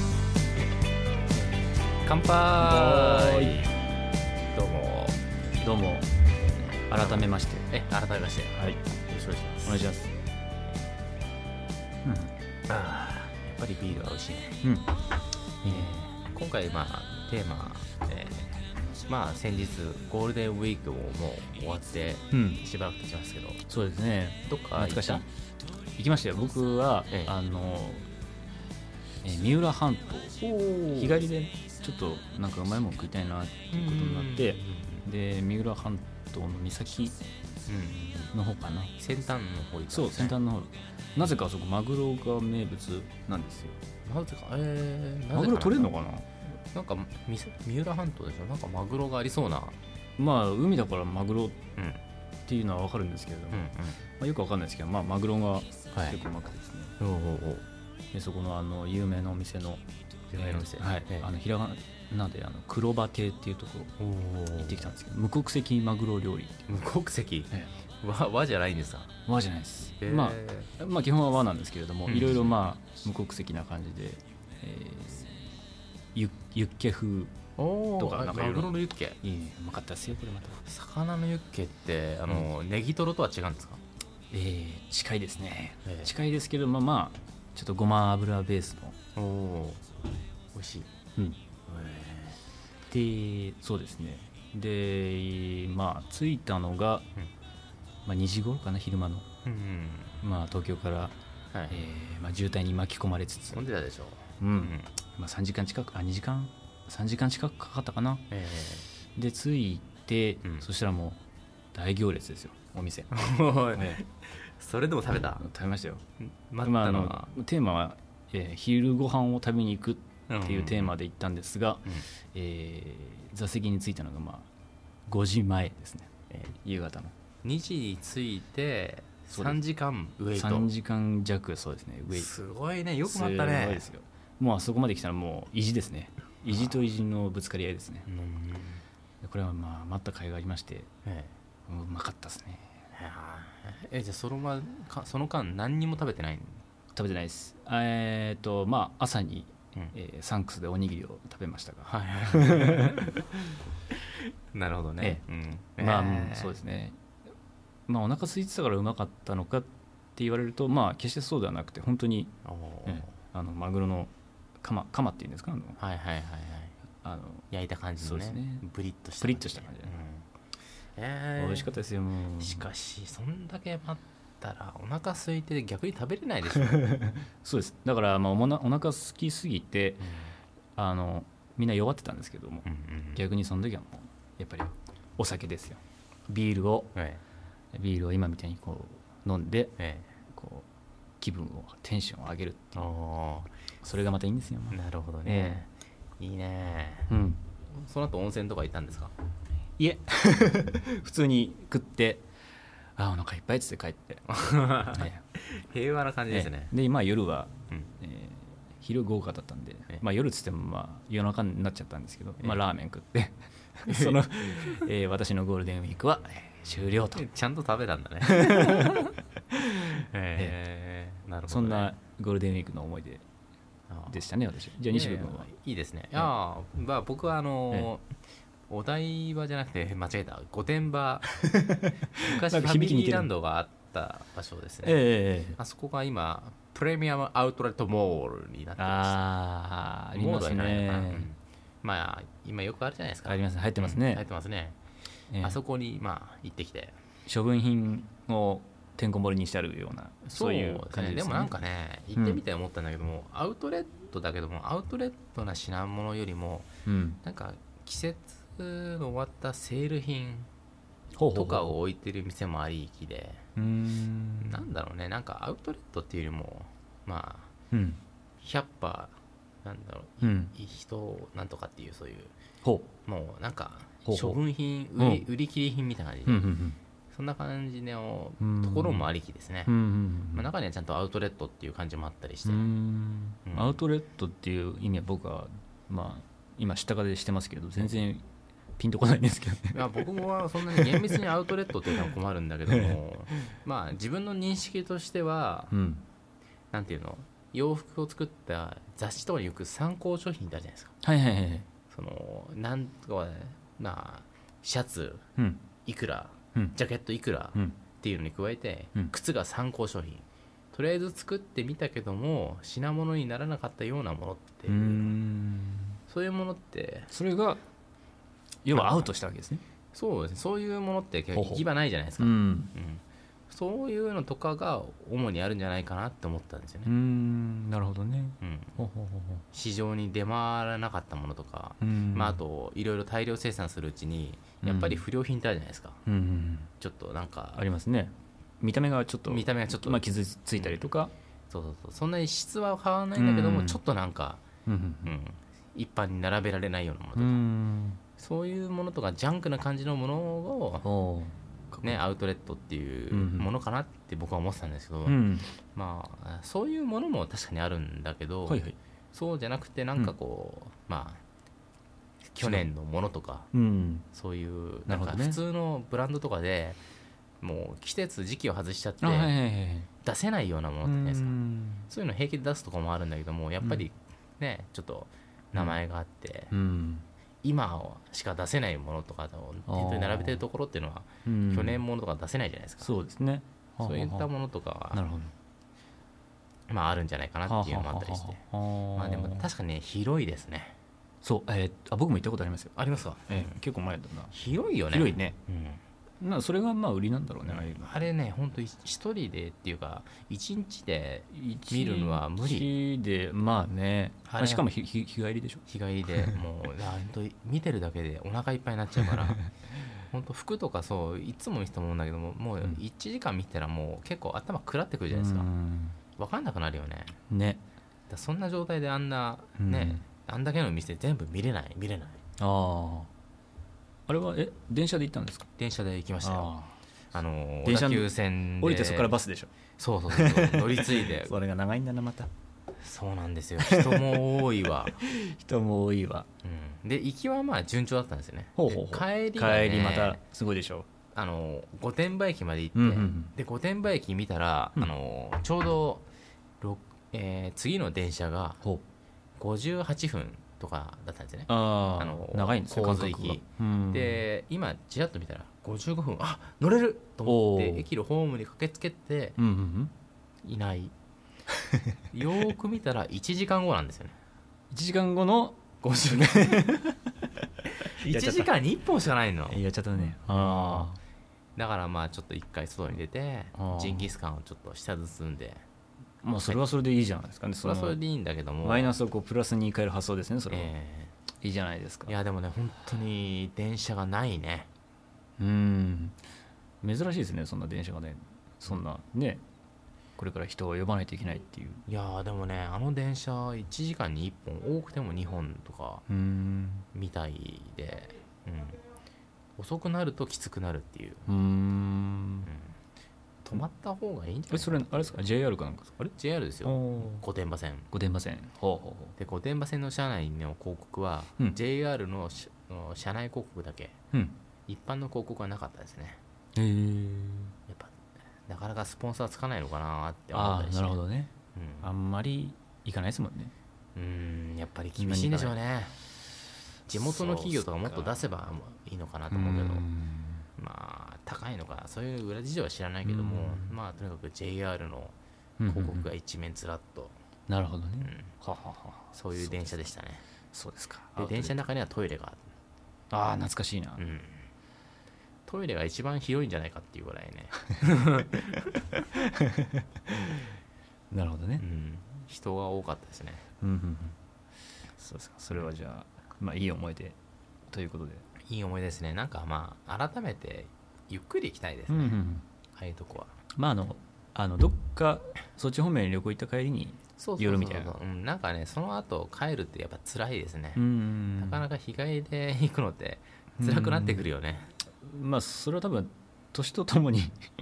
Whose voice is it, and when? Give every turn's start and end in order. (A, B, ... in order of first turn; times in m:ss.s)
0:02.0-0:03.7 A
0:02.6-0:03.6 B
0:04.5-0:05.2 A
0:05.6-0:06.1 B
0:06.9-0:07.7 B
0:06.9-0:09.8 A
0:09.6-0:10.1 B
0:12.0-0:12.3 B
0:12.7-0:14.6 A
0:14.6-0:14.9 B
0:15.6-0:15.9 B
0:15.6-0:23.6 A
0:22.3-0:22.6 B
0:23.7-0:25.2 B
0:24.4-0:25.2 A
0:26.0-0:28.0 B
0:29.2-0:30.4 B
0:30.4-0:31.2 A
0:30.9-0:37.2 B
0:33.7-0:35.0 A
0:37.7-0:38.3 A
0:38.3-0:38.9 B
0:39.0-0:40.4 A
0:39.9-0:43.8 B
0:44.0-0:45.9 A
0:45.3-0:46.3 B
0:46.7-0:49.8 A
0:50.2-0:51.6 B
0:51.8-0:52.0 A
0:52.5-0:56.9 B
0:53.5-0:54.0 A
0:55.9-0:56.2 A
0:57.0-0:57.6 A
0:58.1-0:59.8 B
1:00.3-1:01.3 A
1:00.3-1:03.9 B
1:04.0-1:04.9 A
1:04.6-1:06.6 B
1:06.7-1:09.1 A
1:09.3-1:15.5 B
1:10.0-1:10.7 A
1:12.0-1:12.5 A
1:16.1-1:17.3 B
1:17.6-1:19.2 A
1:18.0-1:20.6 B
1:20.6-1:23.8 A
1:24.3-1:29.0 B
1:25.8-1:26.1 A
1:29.1-1:29.8 A
1:30.5-1:30.9 A
1:31.7-1:32.4 A
1:32.9-1:37.0 B
1:38.0-1:39.2 B
1:39.4-1:40.2 A
1:40.2-1:41.1 B
1:41.5-1:41.8 A
1:41.7-1:43.7 B
1:43.5-1:44.9 A
1:44.4-1:48.2 B
1:48.3-1:48.9 A
1:49.2-1:51.2 B
1:51.7-1:53.1 B
1:53.1-1:55.4 A
1:53.7-1:54.0 B
1:55.4-1:56.0 B
1:56.2-1:57.3 A
1:56.6-2:04.5 B
2:00.3-2:01.0 A
2:05.1-2:07.1 B
2:07.4-2:10.7 A
2:09.3-2:09.6 B
2:10.3-2:12.3 B
2:12.1-2:13.9 A
2:13.0-2:18.1 B
2:16.5-2:16.8 A
2:18.0-2:18.8 A
2:19.2-2:20.9 B
2:21.0-2:21.3 A
2:21.7-2:22.7 B
2:22.9-2:26.6 A
2:26.9-2:33.0 B
2:31.8-2:33.6 A
2:34.5-2:36.6 A
2:35.8-2:37.0 B
2:37.9-2:42.3 B
2:42.4-2:43.1 A
2:42.8-2:45.8 B
2:45.8-2:46.7 A
2:47.0-2:47.5 B
2:47.5-2:50.3 A
2:48.0-2:48.6 B
2:49.2-2:50.0 B
2:51.0-2:51.7 A
2:51.4-2:52.7 B
2:52.4-2:57.1 A
2:56.7-3:00.1 B
3:00.0-3:00.3 A
3:00.8-3:06.9 B
3:02.6-3:03.2 A
3:06.9-3:07.2 A
3:07.7-3:09.8 B
3:09.8-3:10.1 A
3:10.3-3:10.7 B
3:11.2-3:12.9 B
3:12.7-3:13.5 A
3:13.8-3:15.6 B
3:14.7-3:17.1 A
3:17.1-3:17.4 B
3:17.7-3:19.1 A
3:19.8-3:22.2 B
3:23.0-3:24.3 B
3:24.3-3:26.7 A
3:24.9-3:25.2 B
3:26.3-3:37.2 B
3:33.8-3:34.9 A
3:37.1-3:39.1 A
3:38.2-3:39.1 B
3:39.7-3:40.5 B
3:39.9-3:41.9 A
3:41.5-3:43.2 B
3:43.9-3:44.2 A
3:44.1-3:45.5 B
3:44.9-3:48.1 A
3:48.7-3:51.3 A
3:51.4-3:53.3 B
3:52.2-3:59.2 A
3:54.8-3:55.6 B
3:58.8-4:01.3 B
4:00.1-4:04.8 A
4:03.2-4:04.2 B
4:05.3-4:05.6 B
4:05.4-4:07.0 A
4:07.3-4:11.5 B
4:10.2-4:16.7 A
4:16.8-4:17.2 B
4:17.2-4:20.5 A
4:21.2-4:21.8 B
4:21.3-4:23.4 A
4:23.6-4:24.7 B
4:24.4-4:27.5 A
4:27.7-4:28.0 B
4:28.4-4:32.3 A
4:30.2-4:30.5 B
4:32.6-4:32.9 B
4:33.0-4:36.5 A
4:34.0-4:34.4 B
4:35.0-4:35.2 B
4:36.2-4:36.8 B
4:37.1-4:39.7 A
4:38.4-4:39.1 B
4:39.7-4:40.5 B
4:40.3-4:42.6 A
4:42.4-4:48.2 B
4:43.4-4:43.8 A
4:48.8-4:49.9 B
4:49.7-4:55.7 A
4:50.7-4:51.2 B
4:52.7-4:53.0 B
4:55.7-4:56.0 B
4:56.7-5:00.9 A
5:01.0-5:01.7 B
5:01.9-5:05.2 A
5:05.4-5:05.6 B
5:05.8-5:15.2 A
5:14.7-5:16.0 B
5:16.1-5:17.1 A
5:17.1-5:17.6 B
5:18.6-5:19.6 B
5:18.7-5:19.1 A
5:19.9-5:26.9 A
5:21.3-5:21.7 B
5:22.2-5:22.7 B
5:26.8-5:29.4 B
5:28.4-5:28.8 A
5:29.5-5:36.0 A
5:31.8-5:32.4 B
5:34.6-5:35.0 B
5:36.0-5:36.7 B
5:36.8-5:37.6 A
5:37.5-5:41.1 B
5:39.3-5:40.0 A
5:40.6-5:40.9 A
5:41.5-5:44.4 A
5:43.1-5:43.8 B
5:44.6-5:45.1 B
5:45.0-5:47.4 A
5:47.2-5:48.0 B
5:48.2-5:50.9 A
5:50.8-5:52.0 B
5:51.8-5:55.2 A
5:53.1-5:53.5 B
5:55.0-5:55.4 B
5:55.7-6:01.2 A
5:58.5-5:58.8 B
6:02.3-6:03.5 A
6:02.4-6:02.7 B
6:03.5-6:04.1 B
6:04.1-6:06.8 A
6:04.9-6:05.4 B
6:07.4-6:09.3 A
6:09.0-6:09.9 B
6:10.0-6:16.5 A
6:10.8-6:11.9 B
6:16.5-6:17.0 B
6:17.4-6:22.9 A
6:19.7-6:20.4 B
6:21.2-6:21.8 B
6:22.8-6:24.3 B
6:23.8-6:25.0 A
6:24.9-6:25.3 B
6:26.7-6:28.4 A
6:27.4-6:29.5 B
6:28.9-6:30.8 A
6:31.2-6:34.3 B
6:32.8-6:33.6 A
6:34.3-6:35.8 A
6:34.9-6:35.4 B
6:36.2-6:38.0 B
6:37.4-6:42.7 A
6:41.3-6:45.6 B
6:44.2-6:44.7 A
6:45.6-6:49.4 A
6:50.1-6:55.5 A
6:55.1-6:56.0 B
6:56.2-6:57.2 A
6:57.3-6:57.6 B
6:58.1-7:02.2 A
6:59.6-7:00.0 B
7:02.4-7:03.1 B
7:04.1-7:05.5 B
7:05.6-7:06.5 A
7:06.2-7:06.8 B
7:07.1-7:09.2 A
7:07.6-7:09.5 B
7:09.8-7:11.3 A
7:10.1-7:12.3 B
7:12.8-7:15.0 A
7:13.6-7:14.2 B
7:15.0-7:16.3 B
7:16.4-7:20.2 A
7:18.6-7:20.9 B
7:21.1-7:26.1 A
7:22.7-7:23.3 B
7:26.6-7:28.6 A
7:29.4-7:39.4 A
7:31.5-7:34.2 B
7:37.2-7:37.9 B
7:39.4-7:39.9 B
7:40.4-7:40.9 A
7:42.1-7:44.2 A
7:44.7-7:47.0 B
7:45.8-7:46.8 A
7:47.8-7:50.9 A
7:48.0-7:48.5 B
7:49.5-7:51.0 B
7:51.6-7:55.6 A
7:53.5-7:54.1 B
7:56.2-7:58.0 B
7:57.6-7:58.9 A
7:58.6-8:00.7 B
8:00.5-8:01.1 A
8:01.4-8:02.1 B
8:02.1-8:04.7 A
8:05.4-8:06.2 B
8:06.8-8:09.4 B
8:10.2-8:11.8 B
8:11.9-8:16.0 A
8:16.1-8:16.9 B
8:16.9-8:18.8 A
8:19.6-8:21.3 A
8:21.3-8:22.5 B
8:22.4-8:22.7 A
8:23.4-8:25.2 A
8:24.5-8:26.1 B
8:26.0-8:27.9 A
8:26.6-8:27.2 B
8:27.9-8:29.1 B
8:29.2-8:34.0 A
8:34.7-8:36.2 A
8:36.6-8:37.5 B
8:37.7-8:41.0 A
8:40.3-8:41.3 B
8:41.5-8:41.9 A
8:41.8-8:43.5 B
8:44.0-8:45.9 A
8:45.0-8:45.6 B
8:46.9-8:49.9 A
8:46.9-8:48.3 B
8:49.3-8:50.4 B
8:50.6-8:55.2 A
8:53.0-8:53.8 B
8:55.6-8:56.1 B
8:55.7-8:57.2 A
8:57.5-8:59.9 B
8:58.0-8:58.3 A
8:59.1-9:00.2 A
9:00.5-9:01.6 B
9:01.2-9:02.5 A
9:03.1-9:04.0 B
9:04.0-9:04.4 A
9:05.5-9:08.7 A
9:09.1-9:09.8 B
9:11.1-9:11.6 B
9:11.6-9:13.4 A
9:13.6-9:14.2 B
9:15.0-9:17.2 B
9:17.7-9:18.3 B
9:18.4-9:22.2 A
9:21.9-9:22.4 B
9:22.7-9:23.3 A
9:23.6-9:28.0 B
9:27.2-9:30.8 A
9:30.7-9:31.6 B
9:31.4-9:34.7 A
9:33.6-9:34.2 B
9:35.0-9:37.4 B